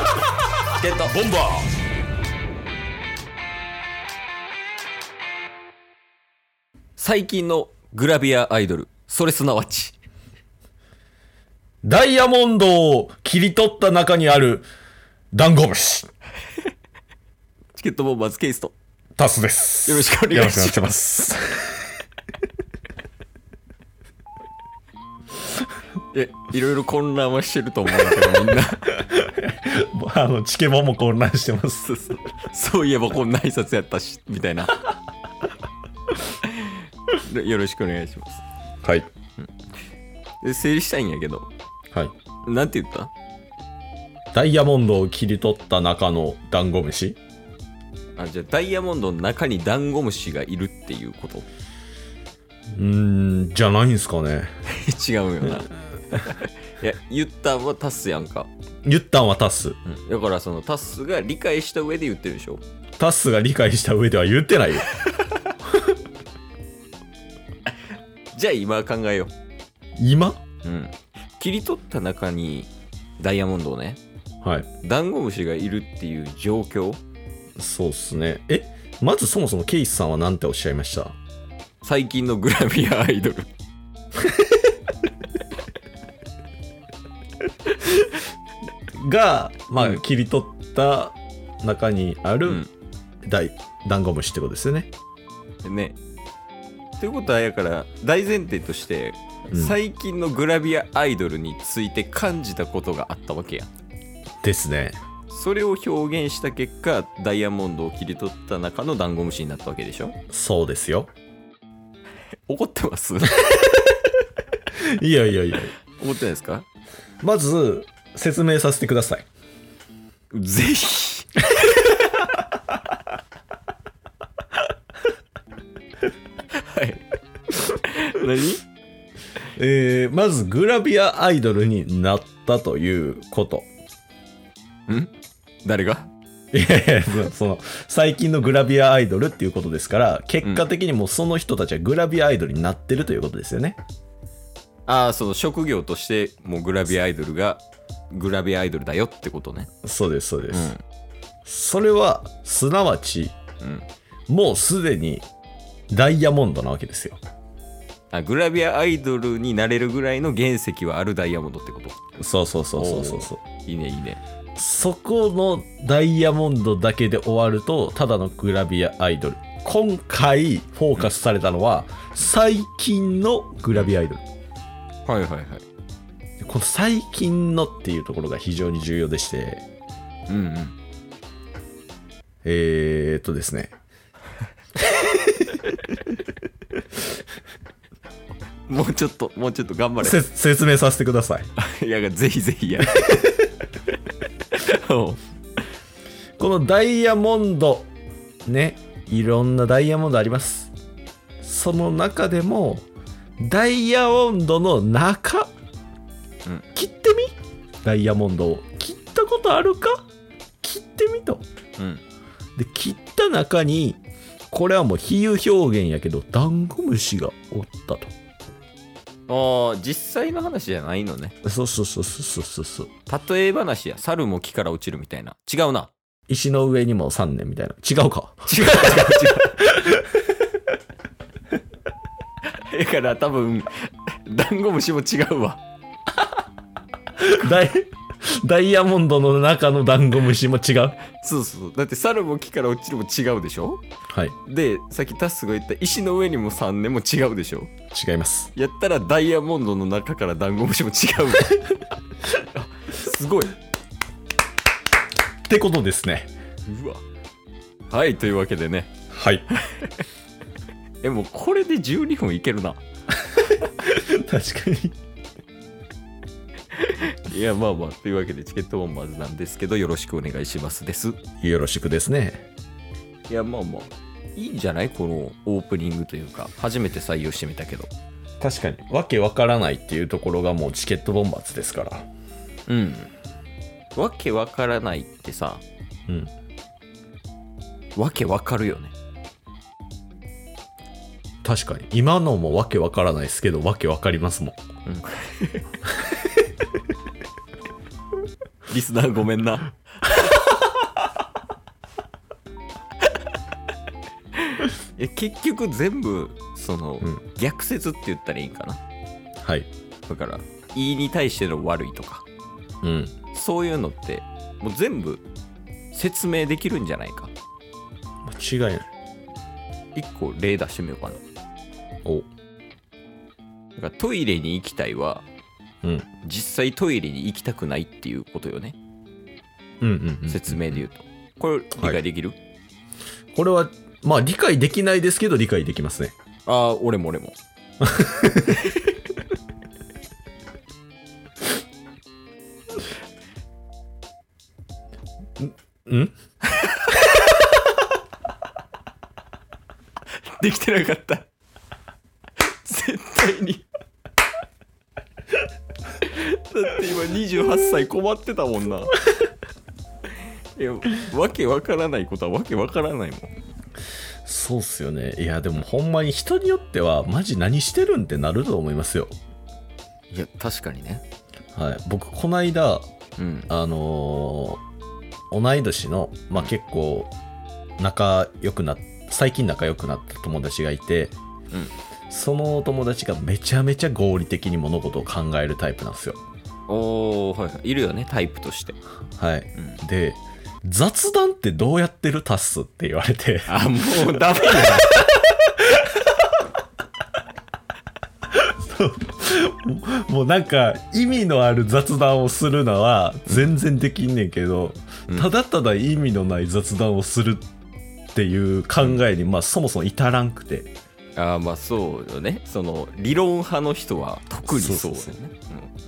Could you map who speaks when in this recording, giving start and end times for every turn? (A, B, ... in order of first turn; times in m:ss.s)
0:00.8-0:01.2 A
0:01.1-0:01.7 B
0:07.0-0:10.0 A
0:11.8-0:14.7 B
0:15.3-0:16.1 B
0:17.8-0:18.7 A
0:19.2-0:21.9 B
0:19.9-0:20.8 A
0:26.1-0:29.0 A
0:28.1-0:32.0 B
0:31.9-0:34.9 A
0:36.3-0:38.4 A
0:38.8-0:39.1 B
0:40.4-0:41.5 A
0:42.5-0:43.1 A
0:44.3-0:47.2 B
0:48.2-0:51.5 A
0:52.7-0:54.5 B
0:54.7-0:58.5 A
0:58.8-0:59.8 B
0:59.8-1:02.6 A
1:03.0-1:04.9 B
1:05.0-1:05.5 A
1:08.3-1:09.3 A
1:10.0-1:10.4 B
1:10.6-1:14.0 A
1:14.4-1:14.7 B
1:14.8-1:17.0 A
1:17.6-1:21.1 B
1:21.8-1:23.5 A
1:28.9-1:32.6 B
1:33.2-1:34.9 B
1:35.6-1:36.0 A
1:37.0-1:43.7 A
1:39.5-1:39.8 B
1:44.4-1:45.0 B
1:45.3-1:50.2 A
1:50.3-1:51.1 B
1:52.5-1:53.4 A
1:53.4-1:53.7 B
1:54.8-1:55.7 B
1:56.0-1:56.7 A
1:57.2-1:59.3 B
2:00.3-2:01.9 A
2:06.6-2:08.6 A
2:09.5-2:13.7 B
2:15.6-2:16.1 A
2:16.5-2:23.8 B
2:24.9-2:29.7 A
2:29.8-2:30.7 B
2:30.5-2:30.8 A
2:31.4-2:33.4 B
2:33.6-2:33.9 A
2:34.3-2:35.3 B
2:35.9-2:37.2 B
2:38.1-2:42.0 A
2:42.2-2:43.4 B
2:42.8-2:44.2 A
2:44.6-2:54.2 B
2:55.1-2:55.6 A
2:56.4-2:59.6 B
3:00.3-3:00.8 A
3:02.4-3:03.7 B
3:08.7-3:10.2 A
3:10.0-3:11.5 B
3:11.6-3:13.4 A
3:14.5-3:15.2 A
3:16.4-3:17.9 B
3:18.4-3:20.7 B
3:21.4-3:22.9 B
3:23.4-3:25.5 B
3:26.8-3:30.1 B
3:30.6-3:31.4 B
3:31.8-3:32.0 A
3:32.6-3:38.1 B
3:39.3-3:41.3 A
3:41.4-3:42.9 B
3:43.1-3:45.9 A
3:46.3-3:50.1 B
3:48.5-3:49.7 A
3:52.7-3:55.6 A
3:57.2-4:01.0 B
4:01.0-4:03.8 A
4:04.1-4:04.3 B
4:04.5-4:07.7 A
4:07.9-4:08.5 B
4:08.5-4:13.6 A
4:15.5-4:16.3 B
4:16.7-4:17.0 A
4:17.9-4:18.9 A
4:19.1-4:19.4 B
4:19.5-4:20.0 A
4:21.0-4:22.8 A
4:23.6-4:25.0 B
4:26.7-4:31.2 A
4:31.4-4:32.4 B
4:33.3-4:37.9 A
4:38.4-4:42.0 B
4:42.7-4:43.1 A
4:43.9-4:45.6 A
4:48.0-4:48.9 A
4:51.4-4:54.6 B
4:54.8-4:55.6 A
4:58.7-5:00.7 A
5:04.4-5:08.8 A
5:09.4-5:09.7 B
5:10.1-5:12.2 A
5:12.8-5:13.1 B
5:13.3-5:15.2 A
5:15.9-5:17.3 A
5:18.2-5:18.9 B
5:20.0-5:21.2 A
5:23.8-5:25.2 A
5:25.8-5:26.1 B
5:26.2-5:28.8 A
5:29.8-5:30.8 B
5:30.3-5:32.4 A
5:33.3-5:36.1 B
5:36.4-5:37.4 A
5:37.8-5:38.7 B
5:45.4-5:46.1 B
5:46.5-5:47.0 A
5:50.4-5:51.3 A
5:52.4-5:53.6 A
5:56.0-5:59.0 A
6:00.6-6:03.3 A
6:04.2-6:09.2 B
6:10.1-6:11.0 A
6:11.5-6:12.9 B
6:13.2-6:13.5 A
6:13.5-6:14.6 B
6:15.3-6:17.1 B
6:17.8-6:21.2 B
6:22.1-6:26.2 B
6:26.7-6:28.8 A
6:29.2-6:35.9 B
6:33.5-6:35.1 A
6:38.3-6:47.4 B
6:48.1-6:50.7 B
6:51.2-6:55.7 A
6:54.5-6:55.2 B